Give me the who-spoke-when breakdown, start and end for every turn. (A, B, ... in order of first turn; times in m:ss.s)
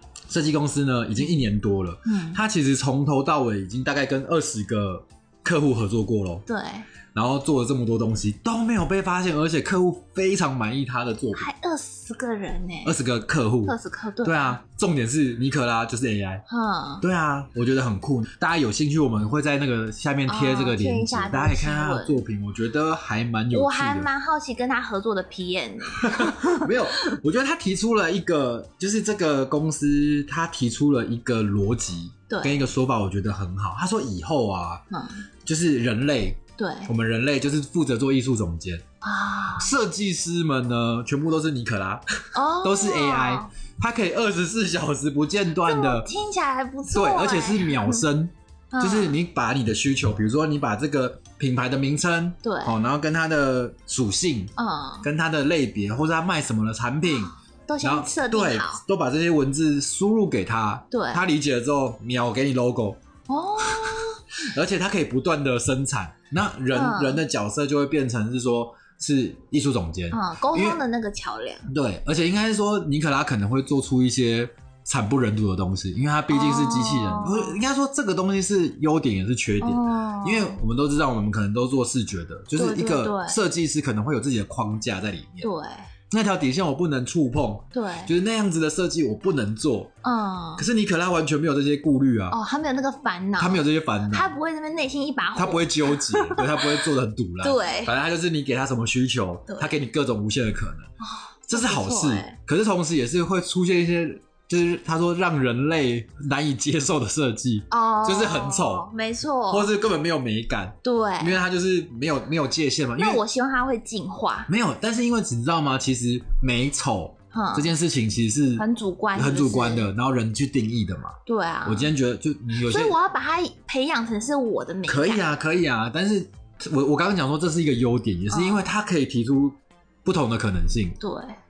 0:00.3-0:06.4 A
0:02.0-0:02.4 B
0:06.5-0:06.9 B
0:07.1-0:11.5 A
0:11.3-0:13.0 B
0:12.8-0:16.4 A
0:13.6-0:14.6 B
0:16.5-0:17.0 B
0:17.0-0:24.1 A
0:20.3-0:22.2 B
0:23.5-0:27.2 B
0:25.9-0:34.8 A
0:32.3-0:32.6 B
0:34.9-0:35.2 B
0:35.4-0:38.8 A
0:36.6-0:36.9 B
0:39.0-0:39.7 B
0:39.6-0:46.1 A
0:42.4-0:43.5 B
0:45.6-0:48.0 B
0:46.9-1:03.0 A
0:48.7-0:49.2 B
0:52.4-0:52.8 B
0:54.6-0:55.1 B
0:57.1-0:58.8 B
1:00.9-1:01.2 B
1:03.3-1:04.2 B
1:03.6-1:10.8 A
1:06.7-1:07.2 B
1:10.1-1:11.7 B
1:11.7-1:25.5 A
1:16.3-1:17.6 B
1:19.6-1:20.6 B
1:22.6-1:23.4 B
1:25.4-1:25.9 B
1:26.1-1:29.9 A
1:27.7-1:28.1 B
1:30.0-1:30.6 B
1:30.6-1:32.4 A
1:32.3-1:36.9 B
1:33.4-1:34.4 A
1:35.4-1:40.9 A
1:37.4-1:37.9 B
1:39.5-1:39.7 B
1:41.0-1:42.4 B
1:41.5-1:48.9 A
1:47.7-1:49.7 B
1:49.5-1:53.2 A
1:50.8-1:51.4 B
1:53.0-1:54.5 B
1:54.5-2:03.0 A
1:57.3-1:57.7 B
1:58.6-1:59.9 B
2:01.2-2:01.9 B
2:02.5-2:05.3 B
2:04.9-2:11.0 A
2:08.3-2:08.7 B
2:11.0-2:11.4 B